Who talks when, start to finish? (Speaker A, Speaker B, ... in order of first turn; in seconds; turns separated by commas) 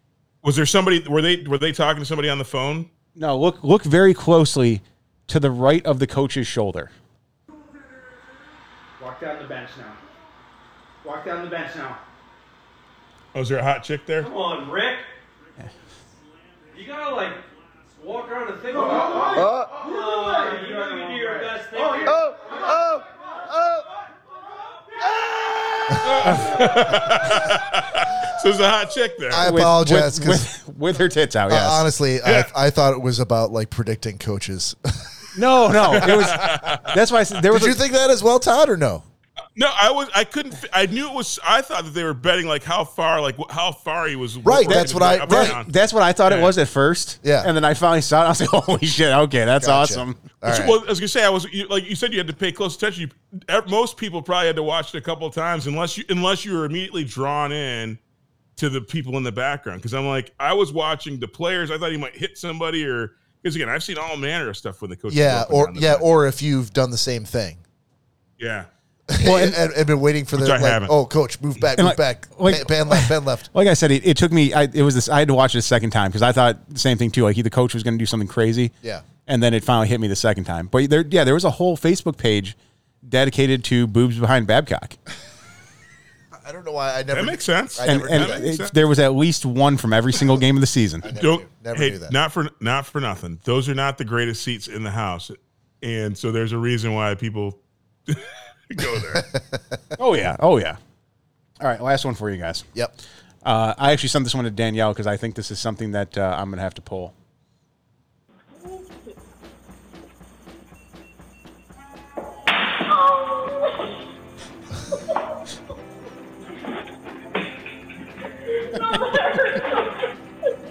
Speaker A: 0.4-2.9, Speaker B: 3.2-6.9, Speaker C: 9.0-10.0, Speaker C: 11.0-12.0, Speaker A: 13.3-14.3, Speaker C: 14.2-15.1, Speaker C: 16.7-22.9, Speaker A: 26.0-29.5, Speaker B: 26.3-26.5, Speaker D: 29.3-30.5, Speaker B: 29.4-31.9, Speaker D: 31.5-35.1, Speaker A: 32.3-32.5, Speaker B: 35.3-37.8, Speaker D: 35.9-36.3, Speaker A: 35.9-36.9, Speaker D: 37.5-39.0, Speaker A: 39.6-45.7, Speaker D: 44.4-45.6, Speaker B: 45.2-50.2, Speaker A: 46.3-46.5, Speaker D: 47.2-47.5, Speaker D: 49.6-50.8, Speaker A: 50.5-58.0, Speaker A: 58.6-66.0, Speaker D: 65.1-67.6, Speaker A: 68.4-68.7, Speaker D: 69.1-73.5, Speaker B: 69.2-69.6, Speaker A: 70.4-70.9, Speaker B: 71.8-78.7, Speaker B: 79.3-85.0, Speaker D: 86.4-88.5, Speaker A: 87.1-88.8, Speaker B: 87.8-91.1, Speaker D: 91.0-92.2, Speaker A: 91.1-99.2, Speaker D: 99.2-99.6, Speaker B: 100.0-100.8, Speaker B: 101.6-102.7, Speaker B: 103.5-107.1